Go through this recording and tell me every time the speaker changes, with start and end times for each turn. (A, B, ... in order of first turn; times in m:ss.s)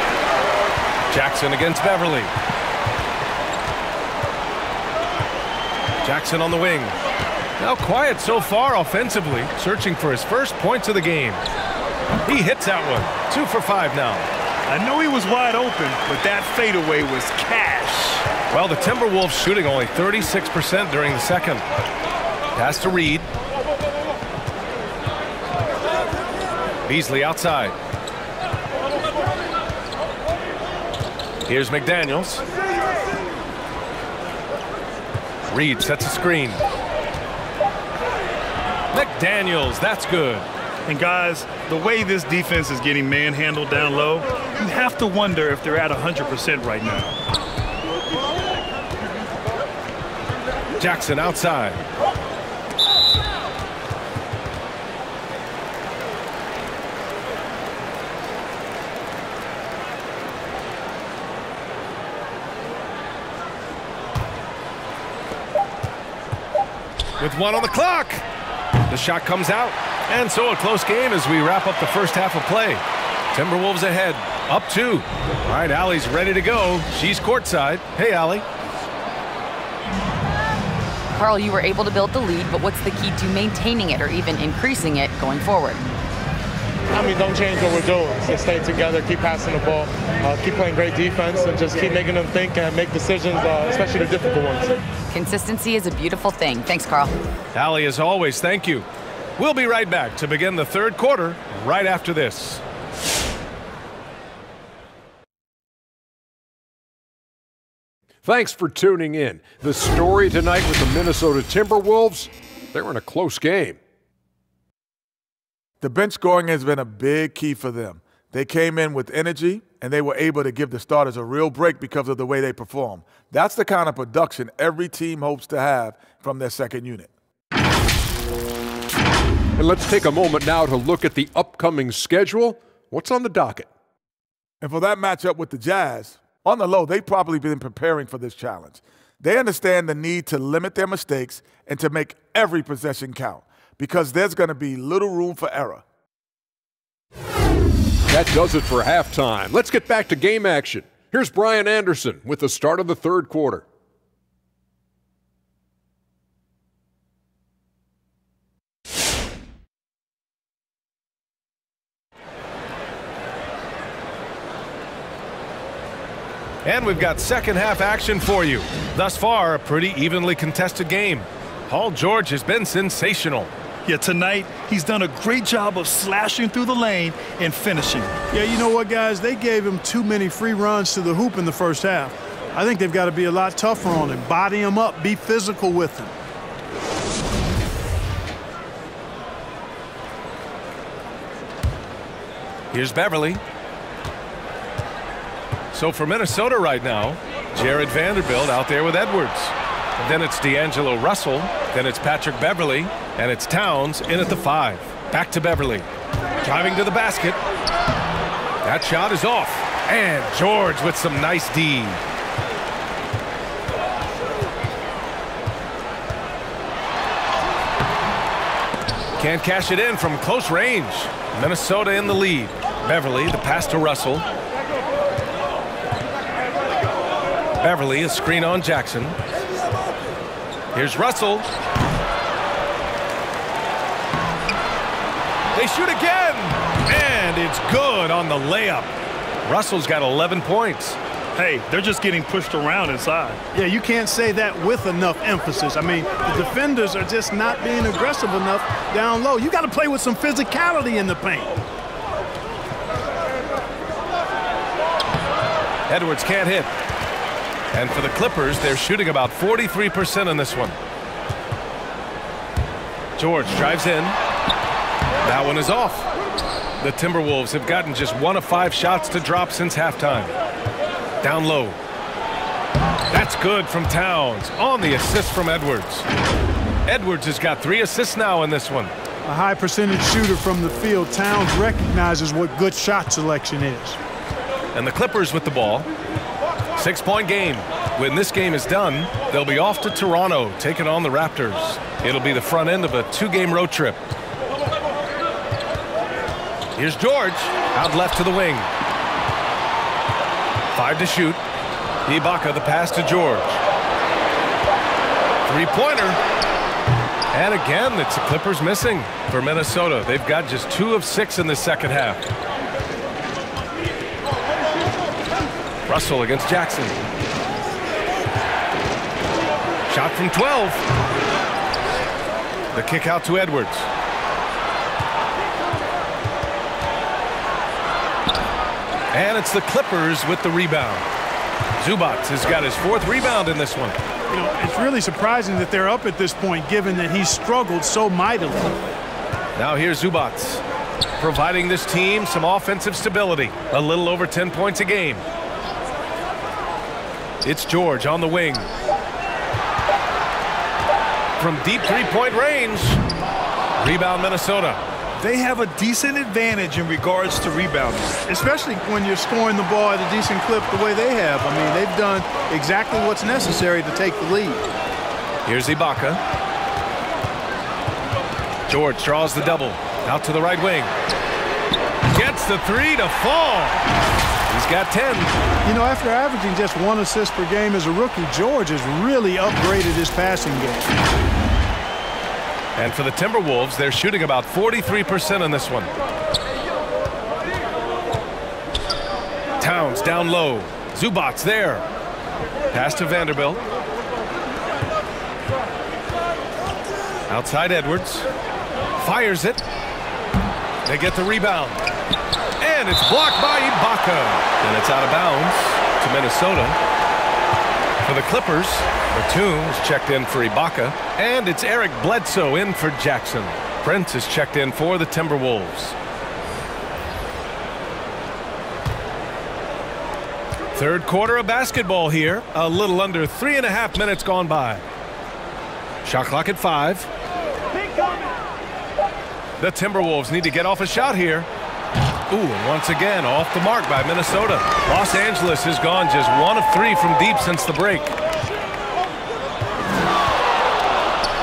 0:01.1-0:02.3 A
0:06.0-0:07.0 A
0:07.6-0:11.4 A
0:12.2-0:14.3 A
0:14.7-0:18.3 B
0:18.5-0:21.6 A
0:22.6-0:23.3 A
0:26.9-0:27.8 A
0:31.5-0:32.4 A
0:35.5-0:36.6 A
0:38.9-0:40.5 A
0:40.9-0:47.2 B
0:50.8-0:51.8 A
1:07.2-1:08.2 A
1:08.9-1:18.5 A
1:21.2-1:25.8 C
1:26.9-1:34.8 D
1:35.1-1:37.1 C
1:37.6-1:38.9 A
1:39.4-1:42.6 A
1:48.2-1:53.8 E
1:55.8-2:07.1 F
2:09.6-2:13.7 E
2:14.6-2:25.8 F
2:28.1-2:33.6 E
2:46.6-2:53.5 A
2:53.9-2:58.1 B
2:58.3-3:06.1 G
3:12.7-3:13.4 A
3:15.7-3:25.9 A
3:26.4-3:27.4 A
3:28.6-3:32.0 A
3:39.2-3:44.3 A
3:47.6-3:49.2 A
3:50.7-3:51.5 A
3:55.6-3:58.9 A
3:59.4-4:01.0 A
4:01.4-4:03.4 B
4:03.5-4:11.6 G
4:15.9-4:16.7 A
4:17.7-4:20.8 A
4:23.2-4:24.2 A
4:25.2-4:26.1 A
4:26.8-4:30.3 A
4:31.2-4:31.8 A
4:33.1-4:36.1 A
4:36.9-4:38.9 A
4:39.2-4:44.0 G
4:44.7-4:45.9 A
4:46.8-4:54.0 A
4:56.8-4:58.7 A
5:00.7-5:01.4 A
5:02.1-5:03.6 A
5:05.5-5:06.2 A
5:07.3-5:12.2 A
5:15.9-5:17.0 A
5:19.9-5:20.8 A
5:22.7-5:23.9 A
5:29.1-5:31.1 A
5:31.8-5:34.0 A
5:34.3-5:38.9 G
5:39.6-5:40.6 A
5:41.2-5:45.2 A
5:47.4-5:48.7 A
5:51.4-5:53.0 A
5:53.8-5:54.8 A
5:55.2-5:58.2 B
5:58.3-6:04.6 G
6:05.5-6:06.2 A
6:08.7-6:10.9 A
6:12.1-6:13.8 A
6:14.5-6:15.3 A
6:15.6-6:20.9 G
6:22.8-6:25.9 A
6:29.6-6:31.9 A
6:32.7-6:33.6 A
6:37.3-6:38.3 A
6:39.0-6:39.6 A
6:40.8-6:41.8 A
6:42.6-6:46.8 A
6:48.0-6:56.0 A
7:00.7-7:04.8 A
7:06.0-7:07.1 A
7:09.6-7:11.5 A
7:12.3-7:18.2 A